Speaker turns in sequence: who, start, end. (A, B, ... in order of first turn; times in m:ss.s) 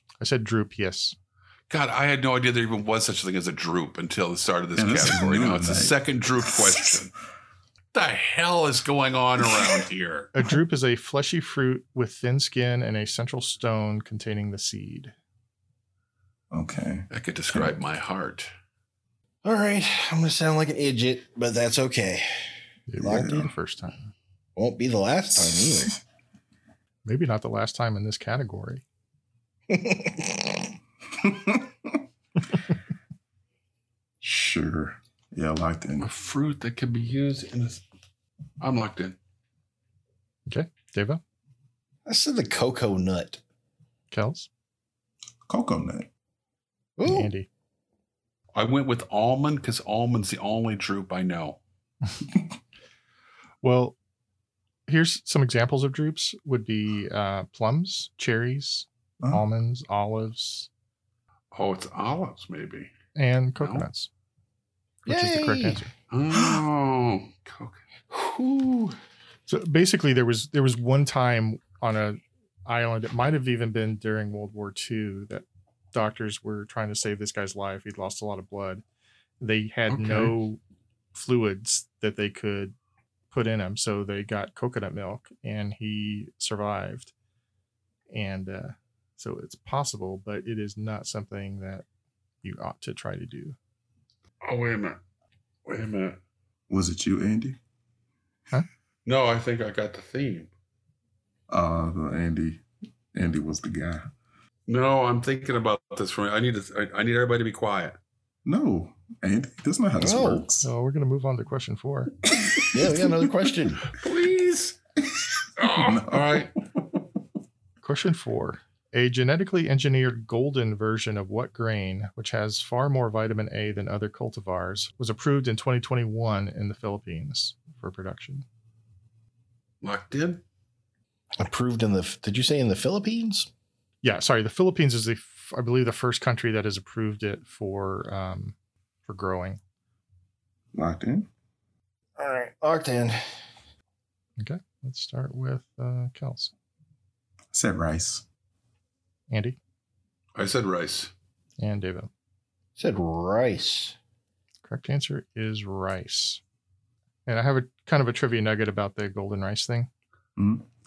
0:00.2-0:01.2 A
0:01.7-0:07.1 B
0:04.8-0:06.9 C
0:07.9-0:10.3 B
0:10.3-0:15.1 A
0:16.5-0:17.7 C
0:17.1-0:18.5 B
0:19.4-0:22.3 D
0:22.9-0:24.1 A
0:23.0-0:23.5 D
0:23.0-0:23.4 C
0:24.6-0:25.9 D
0:25.4-0:26.0 C
0:27.0-0:28.8 A
0:29.7-0:30.7 D
0:31.2-0:31.9 C
0:34.2-0:36.1 C
0:36.0-0:37.8 B
0:38.6-0:39.2 B
0:40.5-0:41.2 A
0:42.0-0:43.4 D
0:44.1-0:44.5 A
0:45.5-0:46.1 C
0:47.0-0:47.3 D
0:47.0-0:47.5 A
0:48.5-0:51.6 B
0:53.6-0:54.0 A
0:54.9-1:00.7 A
1:01.5-1:02.9 B
1:03.1-1:04.1 A
1:03.6-1:03.8 B
1:05.0-1:05.8 D
1:05.0-1:05.9 A
1:06.1-1:07.8 B
1:06.3-1:06.6 C
1:08.1-1:09.0 D
1:09.5-1:18.8 A
1:19.4-1:20.6 A
1:19.9-1:20.3 B
1:21.1-1:22.7 A
1:23.3-1:27.1 A
1:28.1-1:31.8 A
1:32.4-1:33.6 A
1:34.4-1:35.0 B
1:35.6-1:36.2 B
1:36.7-1:37.6 C
1:39.0-1:40.5 B
1:41.5-1:42.6 C
1:43.1-1:44.1 C
1:44.7-1:48.0 B
1:48.4-1:50.7 C
1:50.0-1:50.4 D
1:50.6-1:52.1 A
1:52.3-1:53.0 C
1:52.7-1:53.8 D
1:53.9-1:54.8 B
1:55.6-1:56.5 B
1:55.7-1:57.0 C
1:57.8-2:08.4 A
2:09.8-2:10.4 B
2:11.4-2:13.5 D
2:14.0-2:18.5 A
2:19.0-2:19.6 A
2:20.7-2:21.3 C
2:22.2-2:23.2 D
2:24.4-2:26.5 A
2:27.5-2:28.2 C
2:29.3-2:29.6 A
2:30.4-2:31.1 B
2:31.6-2:32.1 A
2:32.8-2:34.0 D
2:34.6-2:36.4 A
2:37.2-2:39.9 A
2:40.4-2:40.6 C